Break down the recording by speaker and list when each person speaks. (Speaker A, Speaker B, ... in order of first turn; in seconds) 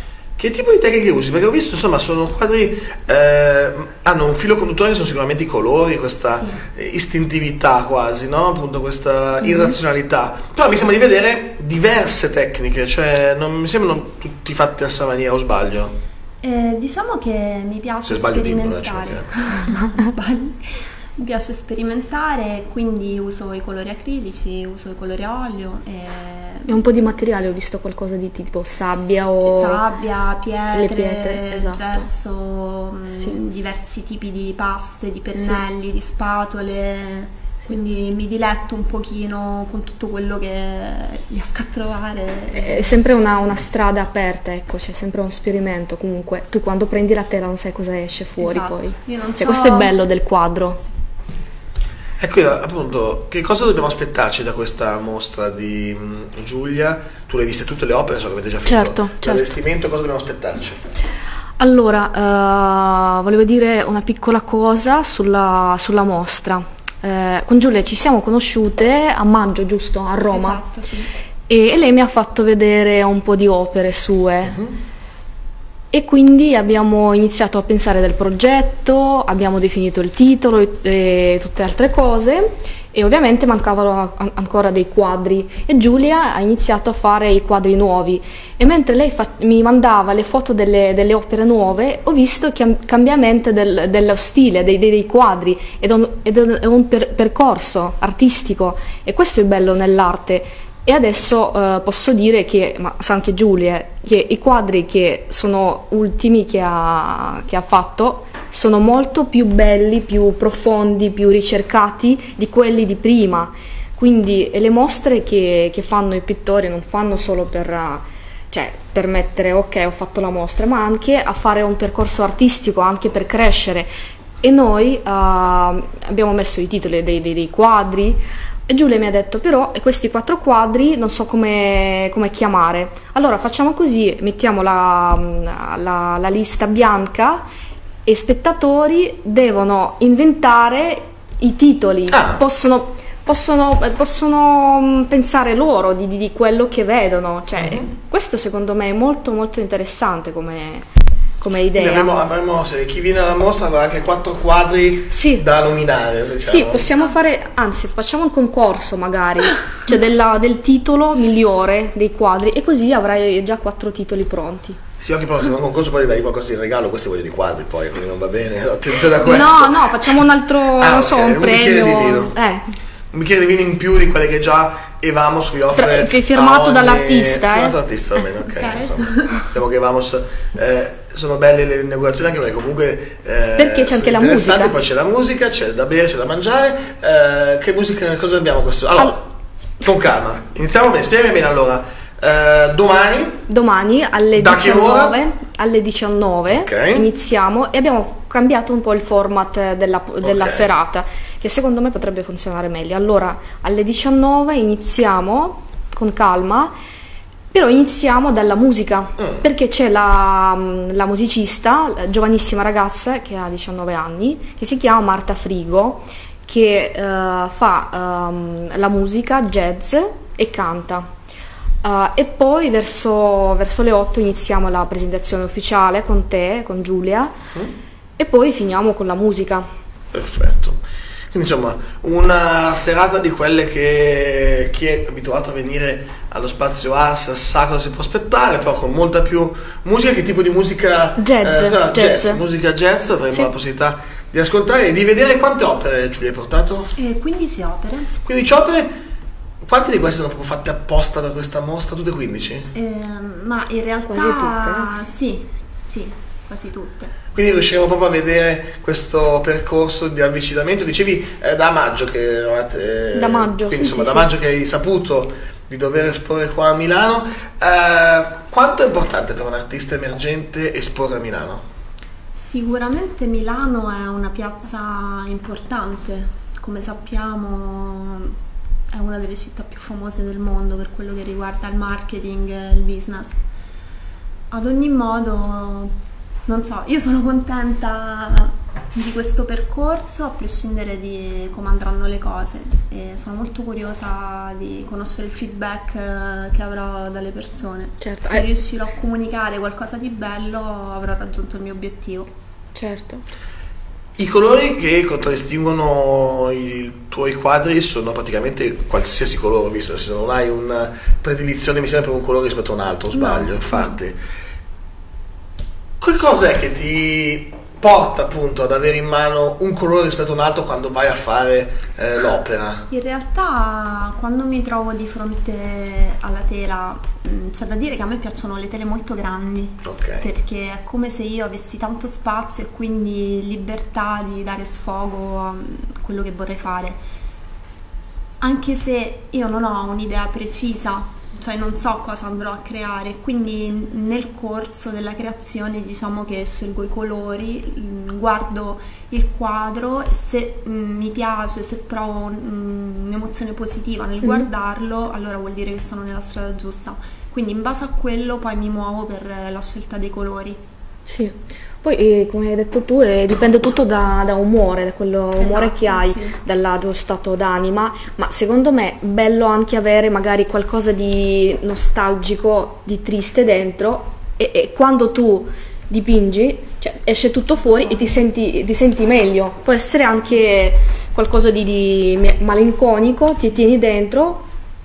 Speaker A: 0.4-15.9, 18.1-19.3, 52.2-60.8, 142.1-142.4, 147.6-147.9, 151.8-156.9, 165.0-172.3, 173.1-189.2, 189.8-193.4, 194.4-195.2, 196.5-197.1, 200.2-200.7, 209.2-209.4, 230.1-230.8, 231.3-246.9, 248.2-248.9, 249.6-252.7, 257.3-271.6, 304.2-314.2, 316.0-322.9, 329.8-330.3
Speaker B: 6.3-6.6, 16.4-26.8, 29.4-43.0, 48.4-49.9, 70.3-71.1, 178.5-179.5, 247.0-248.1, 252.7-257.1, 272.4-278.4, 278.9-283.4, 284.5-285.9, 286.5-302.3, 313.1-313.9, 322.9-337.0, 338.4-360.6, 365.4-366.4
Speaker C: 26.7-29.8, 30.7-32.0, 33.1-33.4, 35.4-35.6, 42.5-50.8, 58.7-59.5, 61.6-70.6, 71.5-74.6, 75.9-123.9, 124.4-137.4, 138.1-150.8, 151.4-152.1, 155.1-155.4, 156.4-164.8, 169.2-172.7, 175.8-177.8, 183.6-184.7, 193.5-206.7, 207.5-221.1, 221.8-227.3, 228.2-229.7, 241.2-242.4, 254.1-254.9, 263.1-264.3, 298.0-298.5, 302.8-303.2, 354.2-354.5, 361.1-384.5